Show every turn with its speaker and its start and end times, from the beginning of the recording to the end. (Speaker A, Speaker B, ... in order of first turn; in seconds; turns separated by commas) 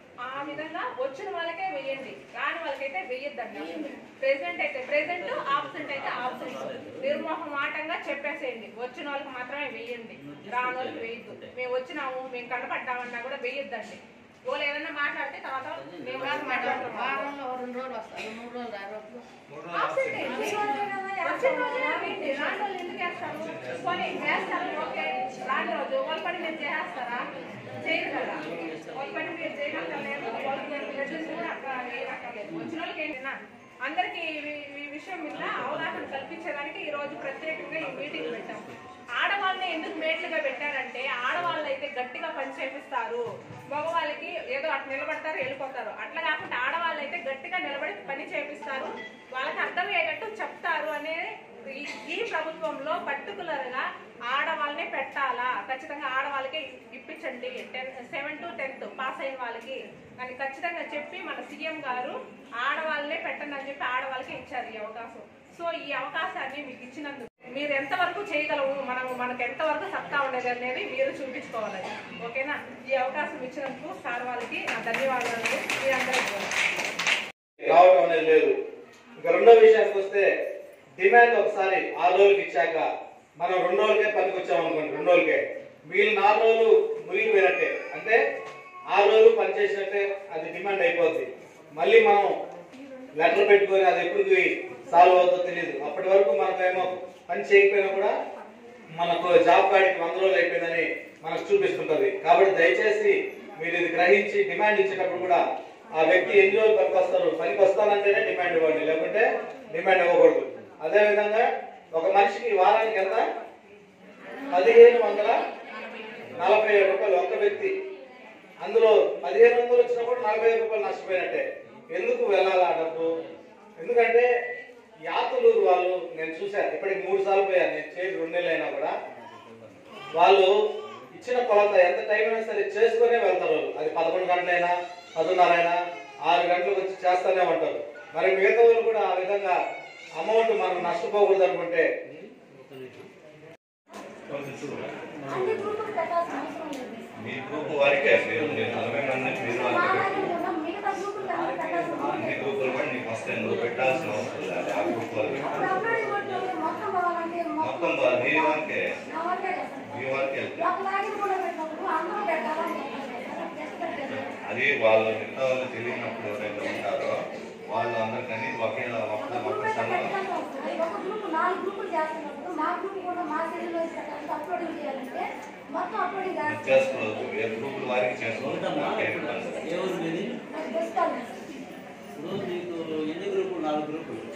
Speaker A: 0.2-17.3, Speaker B: 3.5-4.0, Speaker C: 5.0-7.0, Speaker C: 10.2-11.5, Speaker C: 15.8-16.9, Speaker D: 16.2-19.2, Speaker E: 19.5-20.3, Speaker A: 19.7-20.6, Speaker B: 20.2-22.6, Speaker A: 21.2-27.2, Speaker A: 27.8-38.6, Speaker C: 35.3-36.2, Speaker C: 37.8-39.0, Speaker A: 39.2-76.5, Speaker F: 77.6-78.5, Speaker F: 79.2-80.3, Speaker F: 81.0-82.8, Speaker F: 83.4-88.2, Speaker F: 88.9-92.3, Speaker F: 93.2-98.1, Speaker F: 99.0-105.4, Speaker F: 105.9-113.2, Speaker F: 114.5-115.3, Speaker F: 116.3-117.7, Speaker F: 118.6-123.1, Speaker F: 123.8-124.2, Speaker F: 125.1-128.9, Speaker F: 130.1-130.5, Speaker F: 131.1-139.5, Speaker F: 140.2-141.8, Speaker C: 142.1-143.1, Speaker E: 144.3-144.8, Speaker B: 145.2-147.1, Speaker E: 147.2-150.2, Speaker C: 148.0-149.6, Speaker B: 149.6-152.6, Speaker E: 152.1-155.6, Speaker B: 155.4-164.3, Speaker E: 157.6-158.8, Speaker E: 159.9-160.7, Speaker E: 164.4-167.1, Speaker E: 167.7-170.1, Speaker B: 169.2-177.3, Speaker E: 176.4-179.7, Speaker C: 178.4-180.4, Speaker B: 180.5-181.5, Speaker C: 182.1-184.2